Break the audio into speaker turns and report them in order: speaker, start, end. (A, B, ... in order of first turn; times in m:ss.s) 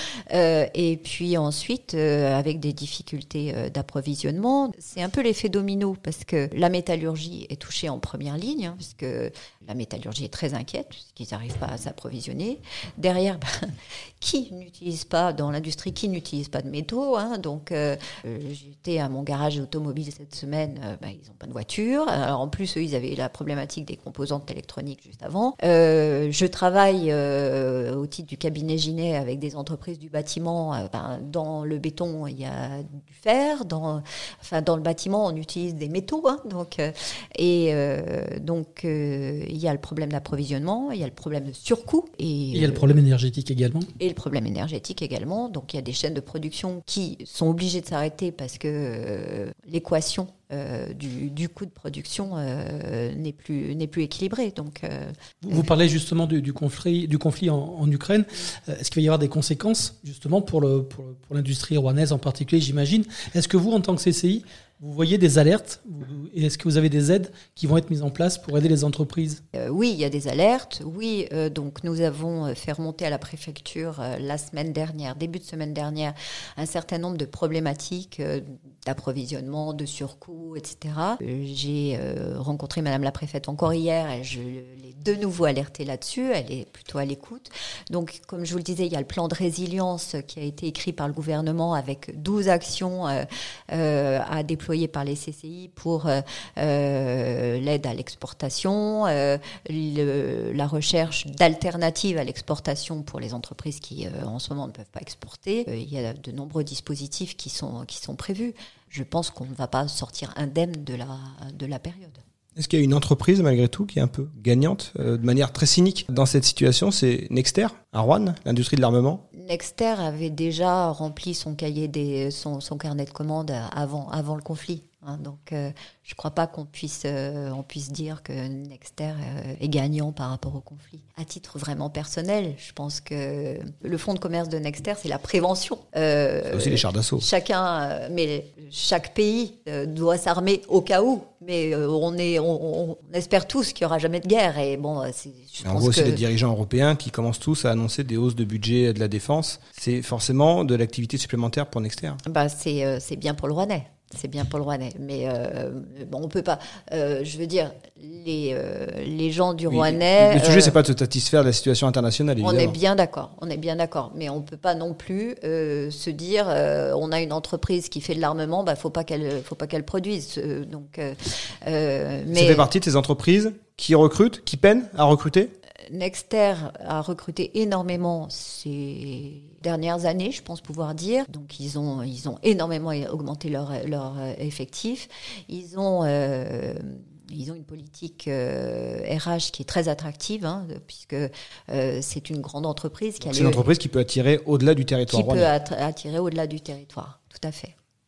0:00.3-0:43.0 A
0:42.5-0:43.9 B
0:44.0-0:55.7 A
0:55.4-1:09.4 B
1:09.5-1:52.2 A
1:52.6-1:59.2 C
1:59.3-2:26.2 A
2:16.5-2:17.2 C
2:25.6-2:32.2 C
2:32.2-2:40.8 A
2:39.7-2:42.8 C
2:42.4-2:52.7 A
2:52.3-2:55.5 C
2:55.9-3:13.7 A
3:13.2-3:15.5 C
3:15.1-3:17.7 A